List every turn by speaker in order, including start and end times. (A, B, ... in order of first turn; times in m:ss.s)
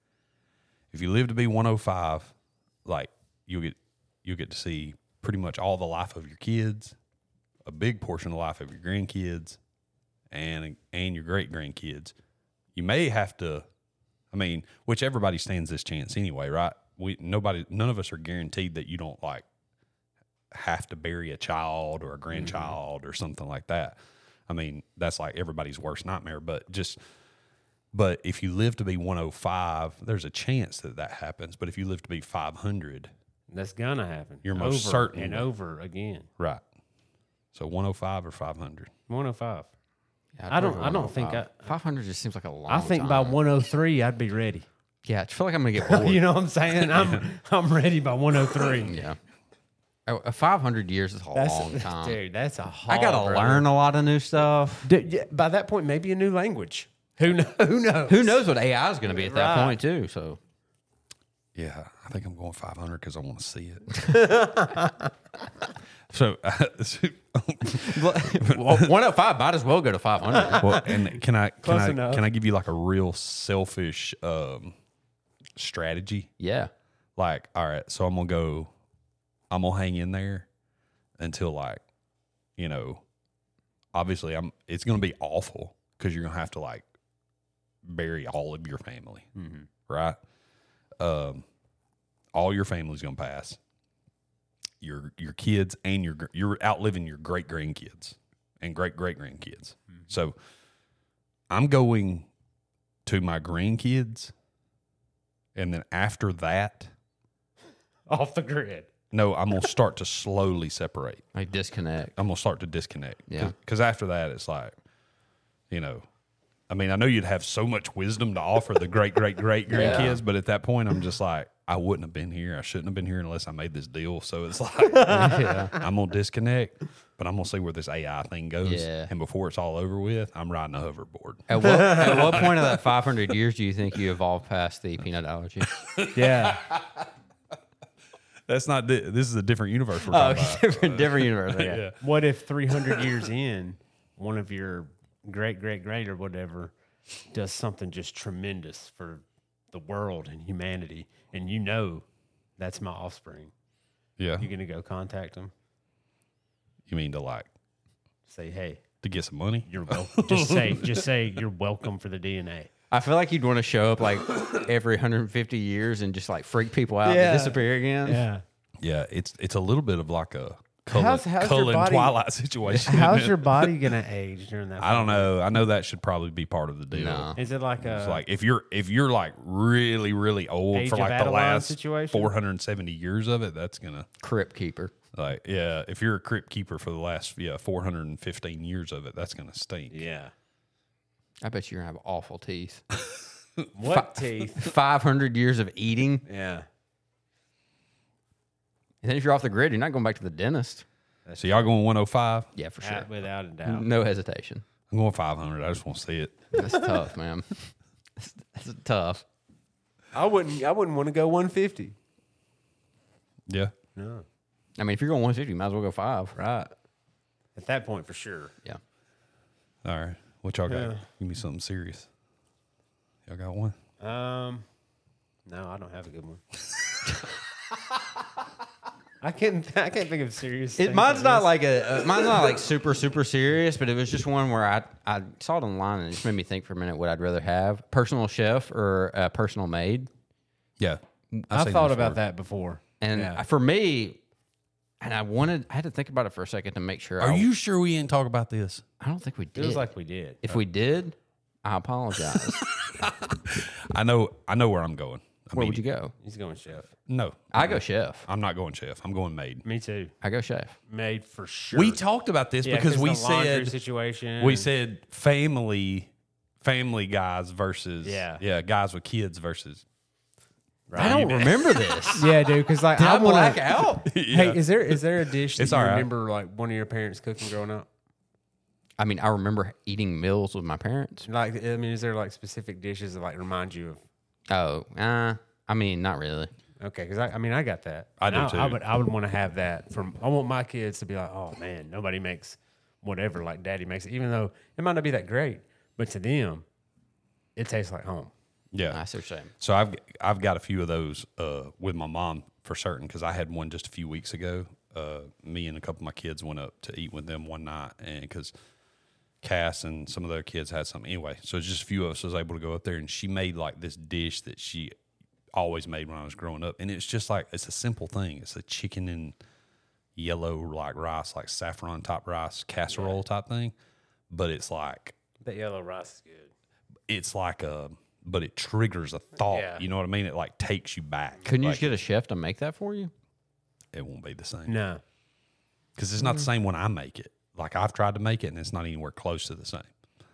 0:00.9-0:02.3 A
0:02.8-0:07.0 A
0:07.6-0:09.6 A
0:10.3-0:12.1 A
0:12.7-0:13.6 A
0:14.3-0:19.4 A
0:20.5-0:24.0 A
0:22.3-0:22.7 B
0:24.5-0:27.0 A
0:27.9-0:33.1 A
0:33.5-0:36.3 B
0:34.4-0:35.5 A
0:37.5-0:38.9 A
0:39.1-0:39.7 B
0:40.4-0:43.4 C
0:40.5-0:41.8 B
0:42.7-0:44.7 B
0:45.0-0:46.3 C
0:45.8-0:49.0 B
0:46.9-0:47.2 A
0:48.8-0:49.2 C
0:50.1-0:52.2 C
0:51.3-0:53.6 B
0:52.9-0:54.9 C
0:54.8-0:58.4 B
0:58.1-1:00.4 C
0:59.1-0:59.8 B
1:01.5-1:04.0 A
1:04.1-1:05.1 B
1:06.1-1:08.9 A
1:07.7-1:10.8 C
1:10.4-1:11.0 B
1:10.6-1:14.7 A
1:11.6-1:12.2 B
1:15.6-1:16.3 A
1:16.4-1:16.7 C
1:17.2-1:18.7 A
1:19.5-1:20.5 A
1:21.2-1:21.8 A
1:22.6-1:23.0 A
1:23.9-1:26.8 A
1:27.8-1:29.3 A
1:29.3-1:29.7 B
1:29.9-1:30.2 A
1:31.0-1:31.4 A
1:32.3-1:33.6 A
1:34.8-1:40.4 A
1:41.5-1:42.3 A
1:43.0-1:44.3 A
1:45.5-1:46.9 A
1:48.1-1:48.9 B
1:49.1-1:51.3 A
1:51.3-1:52.1 C
1:52.2-1:54.7 A
1:53.3-1:53.5 C
1:55.7-1:56.1 A
1:56.7-2:12.7 A
1:59.7-2:00.2 C
1:59.7-2:00.1 B
2:05.0-2:05.7 B
2:05.0-2:05.8 C
2:08.6-2:09.1 C
2:11.5-2:15.8 C
2:11.6-2:12.4 B
2:15.8-2:16.8 A
2:16.1-2:16.7 B
2:18.5-2:22.0 A
2:20.1-2:21.8 C
2:21.9-2:26.7 B
2:27.3-2:32.0 B
2:32.6-2:33.5 B
2:34.2-2:34.5 A
2:34.4-2:35.5 B
2:36.9-2:37.5 A
2:38.3-2:38.8 B
2:39.0-2:41.1 A
2:39.6-2:42.7 B
2:42.9-2:48.2 C
2:47.0-2:48.4 B
2:48.8-2:53.7 A
2:50.9-2:55.3 B
2:54.8-3:04.1 A
2:56.9-2:57.4 C
2:57.3-2:58.2 B
3:00.7-3:02.3 B
3:04.2-3:04.9 C
3:05.1-3:10.0 A
3:09.9-3:10.3 B
3:11.4-3:12.8 C
3:13.7-3:14.7 B
3:13.9-3:16.2 C
3:16.2-3:16.6 B
3:19.0-3:20.8 C
3:21.2-3:21.6 B
3:21.4-3:22.5 A
3:22.6-3:23.1 C
3:22.8-3:23.9 B
3:23.6-3:24.6 C
3:24.9-3:26.6 A
3:26.6-3:29.2 C
3:30.1-3:32.0 B
3:33.5-3:33.7 A
3:34.0-3:34.2 B
3:34.8-3:36.4 C
3:36.4-3:36.7 B
3:37.5-3:38.5 B
3:39.8-3:42.1 A
3:40.7-3:41.0 B
3:43.3-3:43.8 A
3:44.0-3:44.6 B
3:45.4-3:46.4 B
3:49.2-3:51.5 B
3:50.8-4:00.1 C
4:00.8-4:02.2 A
4:01.5-4:03.4 B
4:03.0-4:04.2 C
4:05.0-4:07.5 C
4:07.2-4:08.8 A
4:09.0-4:09.8 C
4:09.6-4:10.6 B
4:10.4-4:12.7 C
4:12.3-4:15.8 A
4:15.5-4:16.1 C
4:16.2-4:16.9 B
4:17.1-4:19.6 A
4:17.5-4:18.2 C
4:19.6-4:20.1 B
4:20.2-4:20.8 C
4:20.9-4:22.0 B
4:21.7-4:23.8 A
4:22.6-4:24.7 B
4:24.4-4:26.1 A
4:26.6-4:29.8 A
4:28.0-4:28.4 B
4:30.9-4:31.4 B
4:30.9-4:32.3 A
4:31.0-4:32.2 C
4:32.1-4:37.9 B
4:33.0-4:34.0 C
4:34.0-4:35.0 A
4:35.6-4:36.1 A
4:39.0-4:41.2 C
4:41.2-4:44.0 B
4:44.5-4:46.5 C
4:46.8-4:56.6 B
4:48.2-4:48.8 A
4:57.6-4:58.3 B
4:58.7-4:59.0 A
4:58.9-4:59.5 C
4:59.6-5:08.5 A
5:09.4-5:14.9 A
5:15.5-5:19.4 A
5:20.2-5:23.7 A
5:22.9-5:23.2 B
5:24.3-5:25.1 A
5:25.4-5:26.5 B
5:27.1-5:31.9 A
5:29.5-5:29.8 B
5:31.4-5:33.1 C
5:33.9-5:34.7 A
5:34.6-5:35.0 B
5:36.0-5:39.9 A